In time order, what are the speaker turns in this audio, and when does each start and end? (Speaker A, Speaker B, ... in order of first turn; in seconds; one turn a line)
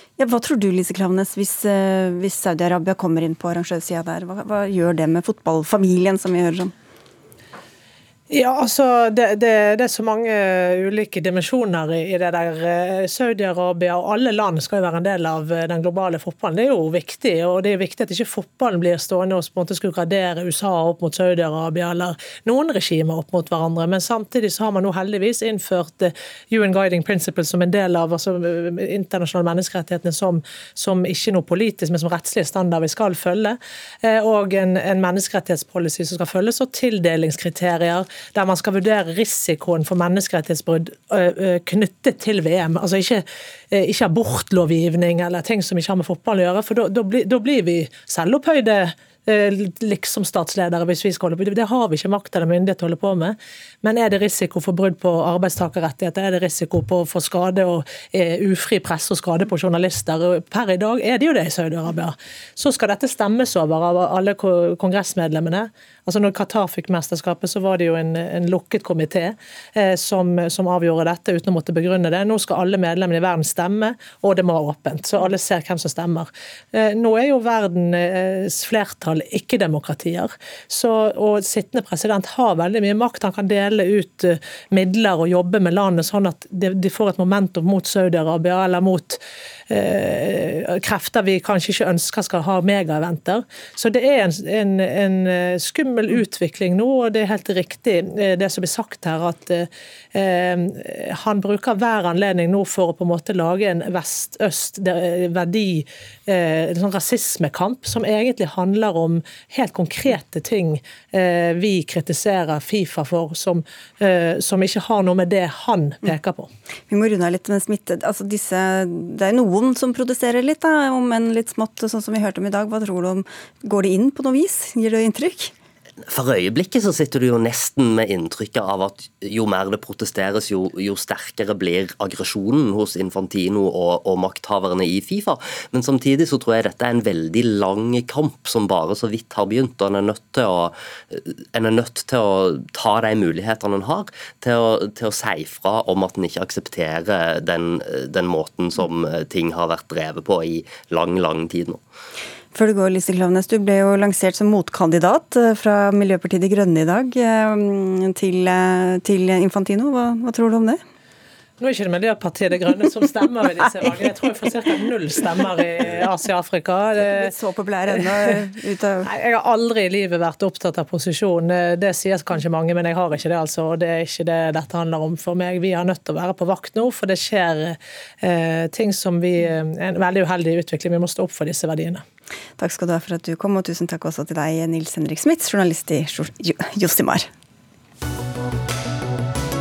Speaker A: 0.2-6.7
Speaker B: 8.3-116.5
Speaker A: 116.9-125.5
Speaker C: 126.1-151.8
Speaker A: 152.5-160.8
Speaker B: 161.6-167.3
Speaker A: 167.1-169.1
Speaker B: 169.1-182.0
Speaker A: 182.6-187.3